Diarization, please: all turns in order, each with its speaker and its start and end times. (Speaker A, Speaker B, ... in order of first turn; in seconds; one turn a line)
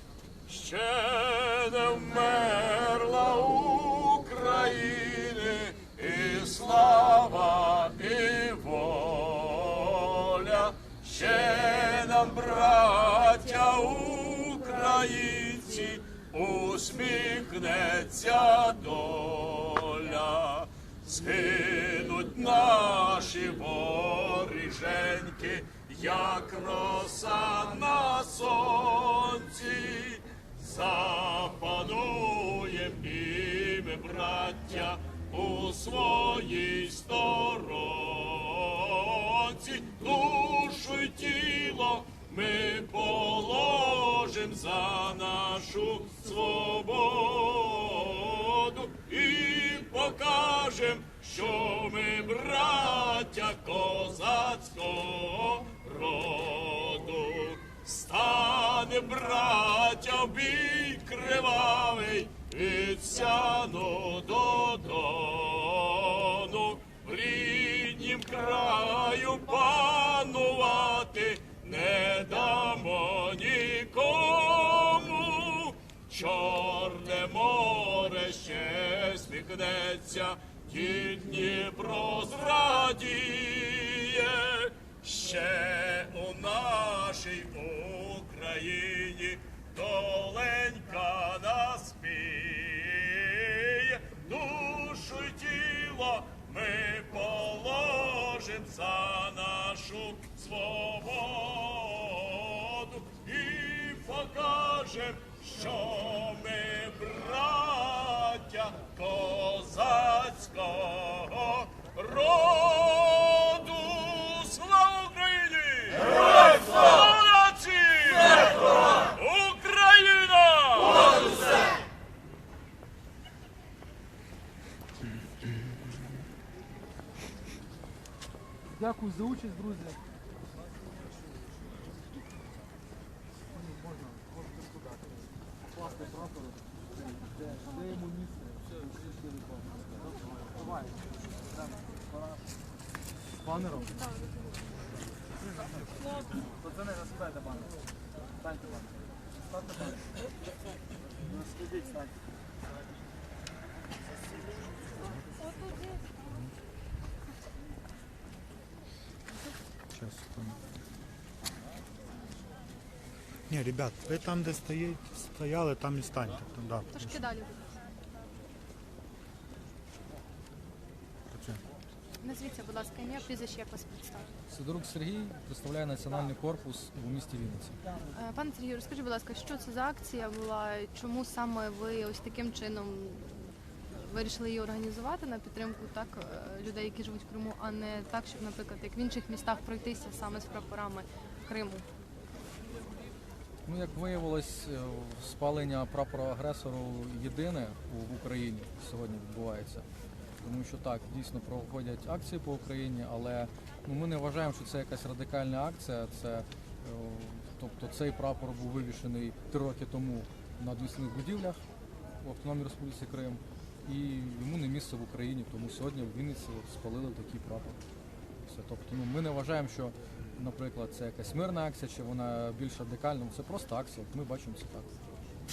Speaker A: 0.5-121.5
Speaker B: 128.8-130.0
Speaker B: 133.5-139.6
Speaker B: 140.4-141.0
Speaker B: 143.4-144.1
Speaker B: 146.8-147.3
Speaker B: 160.0-160.5
Speaker C: 163.5-167.3
Speaker D: 166.9-167.8
Speaker C: 171.3-171.6
Speaker D: 172.2-174.3
Speaker B: 174.5-177.8
Speaker D: 178.1-191.9
Speaker B: 193.7-199.9
Speaker B: 200.4-211.6
Speaker B: 212.2-217.8
Speaker B: 218.4-224.9